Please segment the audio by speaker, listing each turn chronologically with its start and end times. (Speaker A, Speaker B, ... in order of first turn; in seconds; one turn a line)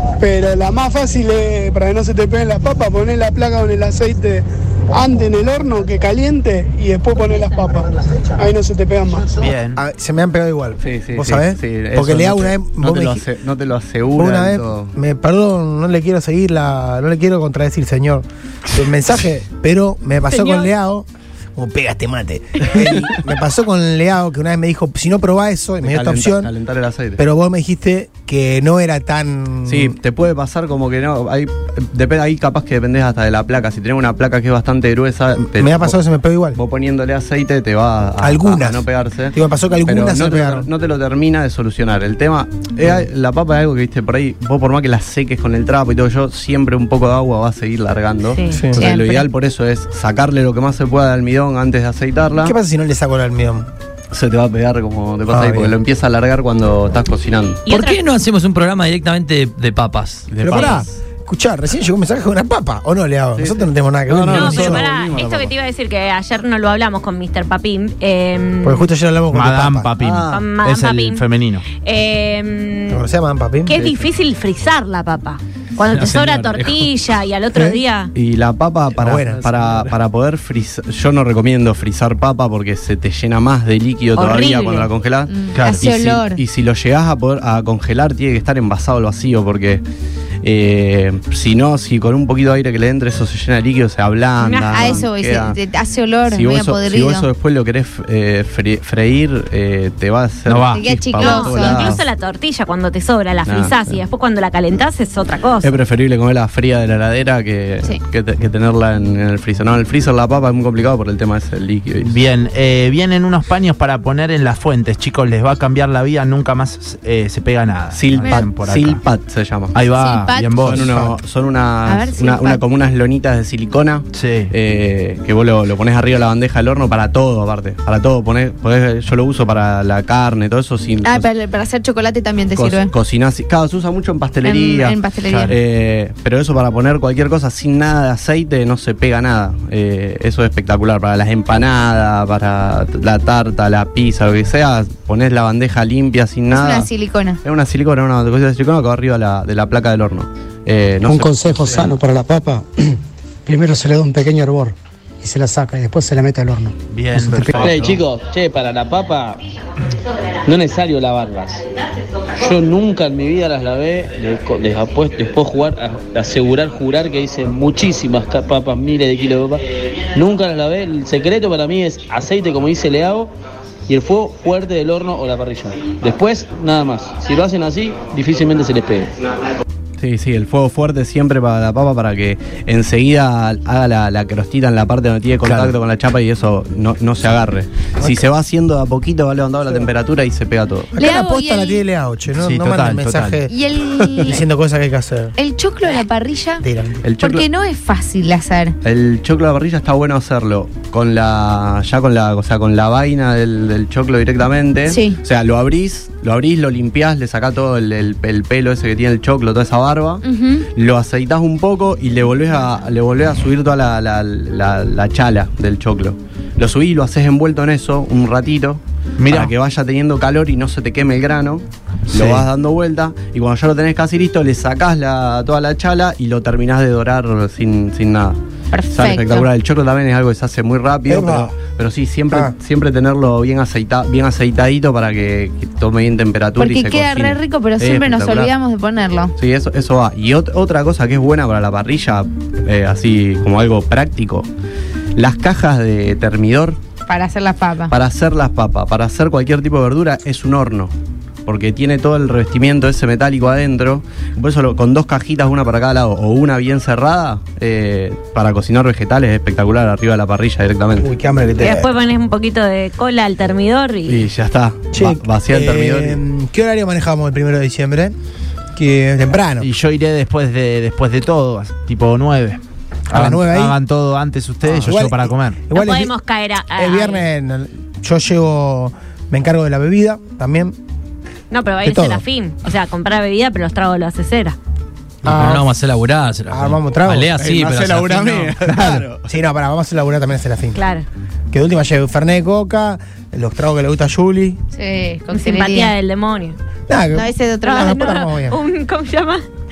Speaker A: 0.2-9.5
Speaker B: 9.4-9.8
Speaker C: 9.7-13.2
Speaker D: 10.8-14.9
Speaker C: 14.2-26.5
Speaker E: 20.3-20.7
Speaker D: 22.8-23.1
Speaker D: 25.8-27.2
Speaker C: 27.2-30.0
Speaker D: 29.7-36.0
Speaker C: 35.5-36.6
Speaker D: 36.5-52.5
Speaker C: 38.2-40.7
Speaker E: 48.3-48.6
Speaker C: 48.5-48.8
Speaker F: 48.7-49.3
Speaker C: 52.4-53.7
Speaker D: 54.1-57.6
Speaker C: 55.3-55.8
Speaker E: 57.7-58.0
Speaker G: 57.7-60.7
Speaker D: 60.3-61.0
Speaker C: 60.4-64.8
Speaker D: 63.4-65.5
Speaker E: 64.3-68.9
Speaker C: 68.6-69.9
Speaker B: 69.3-71.6
Speaker D: 70.0-70.5
Speaker E: 70.3-71.2
Speaker E: 71.8-73.0
Speaker C: 72.9-73.7
Speaker E: 73.6-78.1
Speaker D: 73.7-74.1
Speaker G: 75.9-76.9
Speaker D: 76.0-76.7
Speaker C: 77.5-77.8
Speaker D: 78.1-89.8
Speaker C: 79.0-79.5
Speaker G: 79.5-79.9
Speaker E: 84.2-84.9
Speaker F: 85.3-86.4
Speaker B: 85.5-85.9
Speaker D: 90.4-95.6
Speaker E: 94.4-95.0
Speaker F: 94.7-97.3
Speaker D: 96.3-102.0
Speaker B: 100.5-101.1
Speaker F: 100.7-102.0
Speaker E: 101.2-105.8
Speaker D: 103.4-104.0
Speaker D: 105.6-112.1
Speaker B: 112.0-119.0
Speaker D: 117.9-119.7
Speaker B: 119.7-120.8
Speaker F: 119.9-120.8
Speaker D: 120.7-131.3
Speaker C: 120.7-121.2
Speaker F: 121.8-122.6
Speaker B: 124.1-124.5
Speaker F: 131.0-132.9
Speaker D: 132.5-135.0
Speaker F: 134.4-135.6
Speaker B: 135.3-135.6
Speaker D: 135.5-146.9
Speaker F: 146.5-147.4
Speaker D: 147.4-151.9
Speaker H: 151.1-152.9
Speaker H: 153.4-157.8
Speaker B: 156.9-158.0
Speaker I: 157.6-159.4
Speaker I: 160.4-161.6
Speaker I: 162.4-173.3
Speaker I: 173.9-179.1
Speaker D: 180.0-190.9
Speaker B: 185.4-185.7
Speaker C: 188.0-188.3
Speaker C: 190.9-193.5
Speaker F: 191.0-191.8
Speaker B: 192.3-193.4
Speaker F: 193.5-194.4
Speaker D: 194.0-194.3
Speaker C: 194.2-195.3
Speaker F: 195.4-196.7
Speaker C: 196.6-197.0
Speaker D: 197.0-197.5
Speaker F: 197.2-198.8
Speaker D: 198.8-228.4
Speaker F: 204.8-205.2
Speaker F: 210.2-210.7
Speaker B: 219.2-219.5
Speaker B: 222.1-222.5
Speaker F: 228.7-229.5
Speaker D: 228.9-238.5
Speaker C: 231.1-231.5
Speaker F: 236.6-239.3
Speaker D: 239.4-244.5
Speaker D: 245.2-246.8
Speaker F: 247.1-247.9
Speaker D: 247.9-250.9
Speaker D: 251.4-261.1
Speaker C: 261.0-261.9
Speaker E: 261.6-264.2
Speaker D: 264.1-266.2
Speaker C: 264.9-268.1
Speaker C: 268.7-269.7
Speaker B: 269.6-275.6
Speaker C: 273.1-273.8
Speaker C: 274.8-276.1
Speaker E: 275.7-277.2
Speaker C: 276.7-280.8
Speaker E: 281.5-284.6
Speaker C: 281.8-282.2
Speaker C: 285.2-285.7
Speaker G: 285.2-288.5
Speaker C: 286.5-287.3
Speaker D: 287.3-289.3
Speaker B: 288.7-289.0
Speaker C: 288.8-290.8
Speaker E: 290.7-291.1
Speaker C: 291.5-294.6
Speaker F: 294.7-295.9
Speaker E: 295.3-296.6
Speaker C: 296.9-298.6
Speaker F: 297.1-298.1
Speaker E: 297.6-299.4